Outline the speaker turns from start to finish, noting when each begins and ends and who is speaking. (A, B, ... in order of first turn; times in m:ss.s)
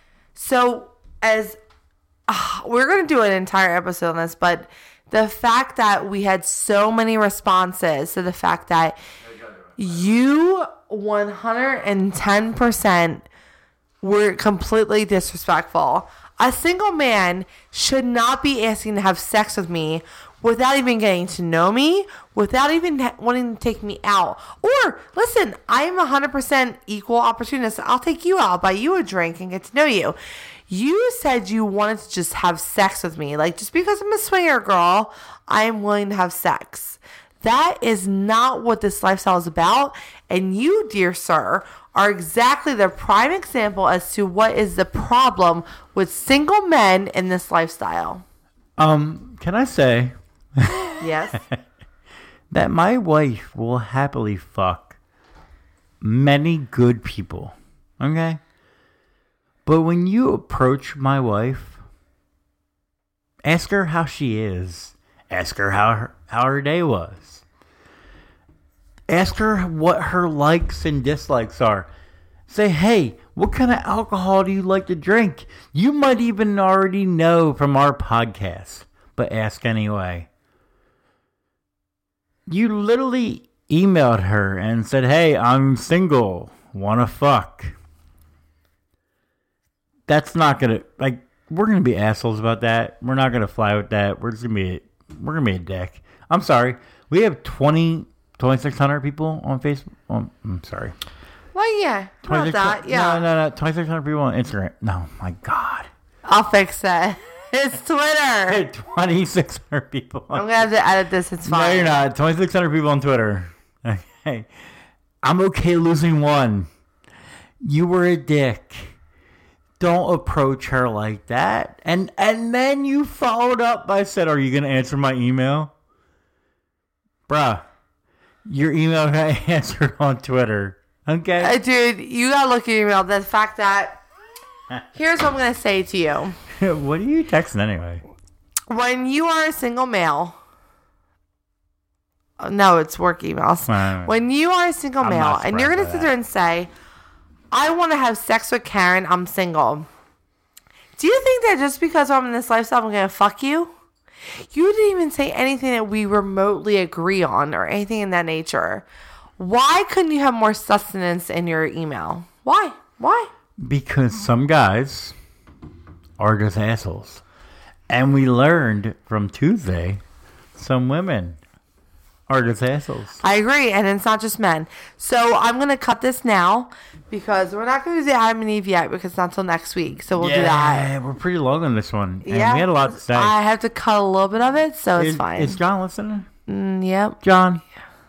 0:00.3-0:01.6 A
0:02.3-0:09.0 A
0:09.8-0:13.2 A
0:14.0-0:30.2 A
0:30.7-0:48.2 A
0:48.8-0:51.6 B
0:51.0-0:51.4 A
0:52.5-0:55.0 B
0:56.0-0:58.4 B
0:59.6-1:01.8 B
1:03.4-1:07.4 B
1:09.1-1:11.9 B
1:12.5-1:20.3 B
1:22.5-1:27.8 B
1:30.1-1:40.9 B
1:41.5-1:43.2 A
1:42.2-1:45.9 B
1:46.2-1:48.6 A
1:48.5-1:50.5 B
1:50.3-1:52.0 A
1:51.4-1:54.5 B
1:55.2-1:56.7 B
1:57.6-1:59.0 B
1:59.8-2:05.7 B
2:07.3-2:07.6 B
2:08.4-2:11.5 B
2:11.4-2:14.0 A
2:14.9-2:16.4 A
2:16.5-2:18.0 B
2:18.7-2:20.4 A
2:22.4-2:26.7 A
2:23.7-2:24.1 B
2:25.0-2:26.1 B
2:27.5-2:29.9 A
2:31.0-2:33.7 A
2:34.5-2:38.8 A
2:39.4-2:43.3 A
2:43.6-2:45.2 B
2:46.2-2:47.2 B
2:47.9-2:50.0 B
2:50.5-2:51.4 B
2:52.3-2:53.2 B
2:53.2-3:00.9 A
3:00.2-3:03.3 B
3:02.2-3:05.6 A
3:05.0-3:06.3 B
3:06.5-3:07.2 A
3:07.2-3:07.6 B